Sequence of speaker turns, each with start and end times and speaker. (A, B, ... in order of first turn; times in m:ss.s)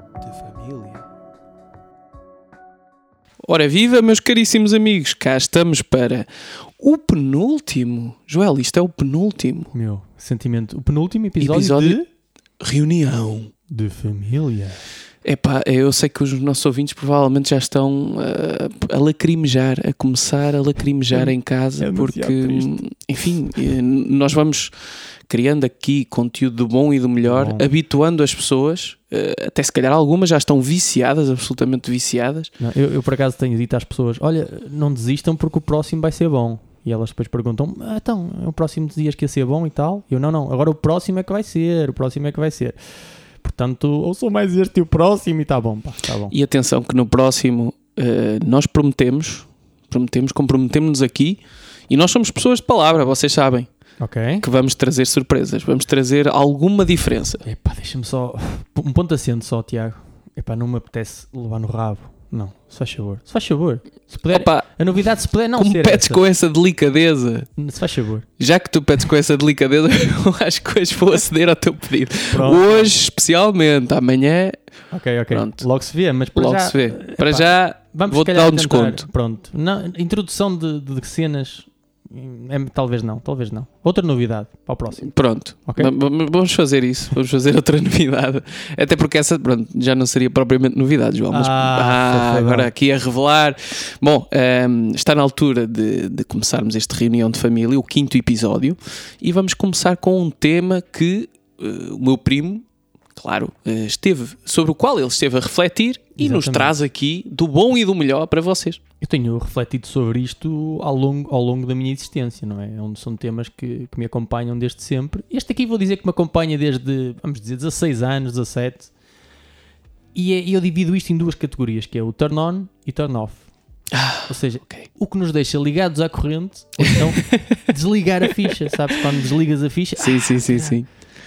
0:00.2-0:01.0 A
0:03.4-0:09.7 A
0:09.7-0:12.0 B
0:11.4-0:12.0 A
0:12.6-0:13.5 A
0:13.7-0:14.8 B
0:15.2-0:24.7 A
0:21.1-0:22.8 B
0:25.3-0:32.5 A
0:27.2-0:27.7 B
0:32.6-0:42.8 B
0:43.4-0:46.3 B
0:46.3-0:53.7 A
0:54.0-0:54.4 B
0:54.4-0:57.4 A
0:57.4-1:06.2 B
1:04.3-1:04.7 A
1:05.6-1:07.5 A
1:07.6-1:08.3 B
1:08.4-1:14.6 A
1:12.3-1:12.9 B
1:14.9-1:25.1 B
1:15.3-1:15.7 A
1:16.3-1:19.0 A
1:25.0-1:48.8 A
1:25.7-1:25.9 B
1:31.3-1:32.7 B
1:46.2-1:46.8 B
1:49.0-1:58.9 B
2:00.2-2:03.5 B
2:03.9-2:04.8 A
2:04.2-2:10.8 B
2:06.8-2:07.6 A
2:08.4-2:08.7 A
2:10.0-2:10.9 A